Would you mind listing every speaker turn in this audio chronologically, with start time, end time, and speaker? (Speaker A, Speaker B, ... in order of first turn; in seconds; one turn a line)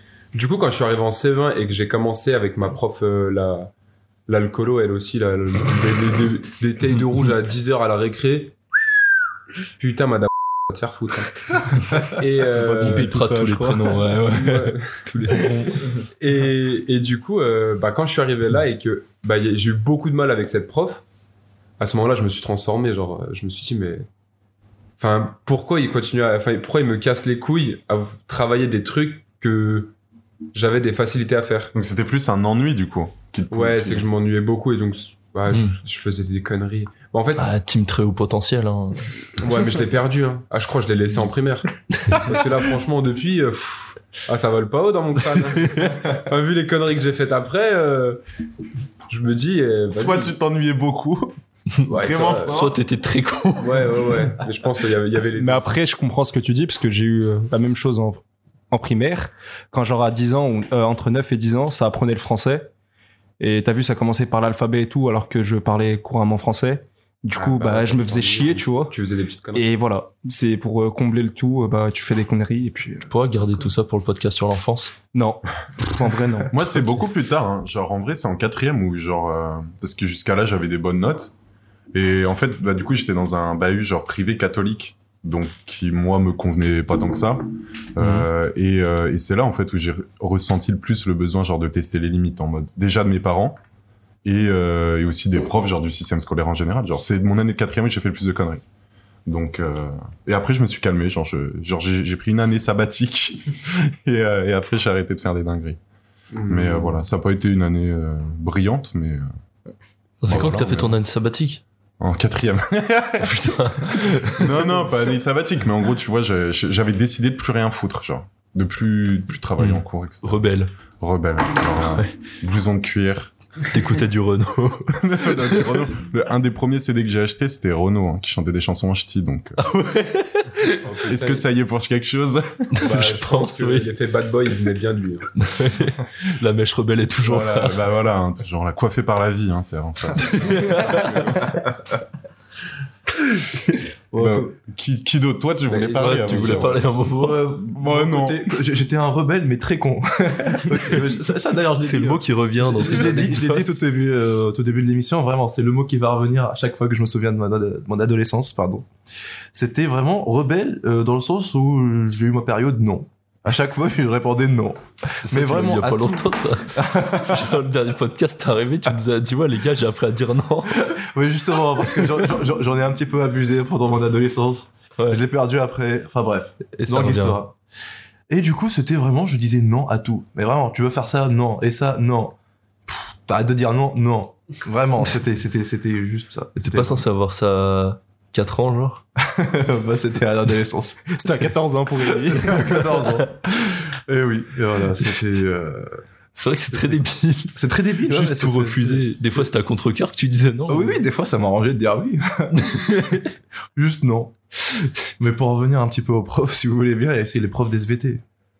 Speaker A: 0.3-3.7
Speaker A: 4.3-8.6
Speaker A: 9.8-13.1
Speaker B: 11.9-14.0
Speaker C: 12.8-15.9
Speaker A: 14.3-15.0
Speaker A: 16.2-21.0
Speaker A: 21.8-24.1
Speaker A: 25.0-29.9
Speaker A: 30.5-31.7
Speaker D: 31.7-34.1
Speaker A: 33.5-37.5
Speaker C: 35.5-35.8
Speaker C: 37.4-39.1
Speaker A: 39.4-48.2
Speaker C: 42.0-42.3
Speaker C: 45.6-46.0
Speaker A: 49.1-50.4
Speaker D: 49.9-51.4
Speaker C: 51.8-54.0
Speaker A: 51.9-52.6
Speaker D: 52.0-52.8
Speaker A: 53.6-55.7
Speaker B: 55.4-62.7
Speaker B: 63.4-68.9
Speaker A: 67.3-69.7
Speaker B: 69.5-73.1
Speaker C: 73.1-74.9
Speaker B: 75.1-76.7
Speaker D: 76.5-81.3
Speaker D: 81.9-93.6
Speaker C: 88.0-88.3
Speaker D: 94.2-98.6
Speaker D: 99.3-105.8
Speaker A: 106.3-107.0
Speaker D: 106.5-109.3
Speaker C: 110.2-111.6
Speaker D: 110.3-111.0
Speaker D: 112.0-123.3
Speaker C: 113.2-114.6
Speaker C: 119.6-120.7
Speaker C: 123.7-125.8
Speaker D: 124.9-129.6
Speaker C: 129.6-130.9
Speaker A: 130.8-131.5
Speaker D: 131.1-132.7
Speaker C: 132.7-133.9
Speaker A: 132.8-135.3
Speaker C: 135.4-137.8
Speaker D: 137.2-141.5
Speaker C: 140.2-141.5
Speaker E: 144.1-144.5
Speaker D: 144.1-146.9
Speaker A: 145.7-146.8
Speaker C: 145.9-147.5
Speaker E: 147.1-158.9
Speaker D: 147.6-148.4
Speaker C: 151.8-153.7
Speaker E: 159.5-167.6
Speaker C: 165.3-170.9
Speaker E: 170.8-177.5
Speaker C: 176.6-177.4
Speaker E: 178.3-182.4
Speaker E: 182.9-187.1
Speaker C: 186.6-189.0
Speaker E: 189.3-191.2
Speaker B: 191.1-192.7
Speaker E: 192.3-196.0
Speaker C: 193.0-193.2
Speaker C: 196.3-201.0
Speaker E: 197.6-199.4
Speaker E: 200.7-202.9
Speaker C: 202.6-203.3
Speaker E: 203.8-204.4
Speaker E: 205.2-208.2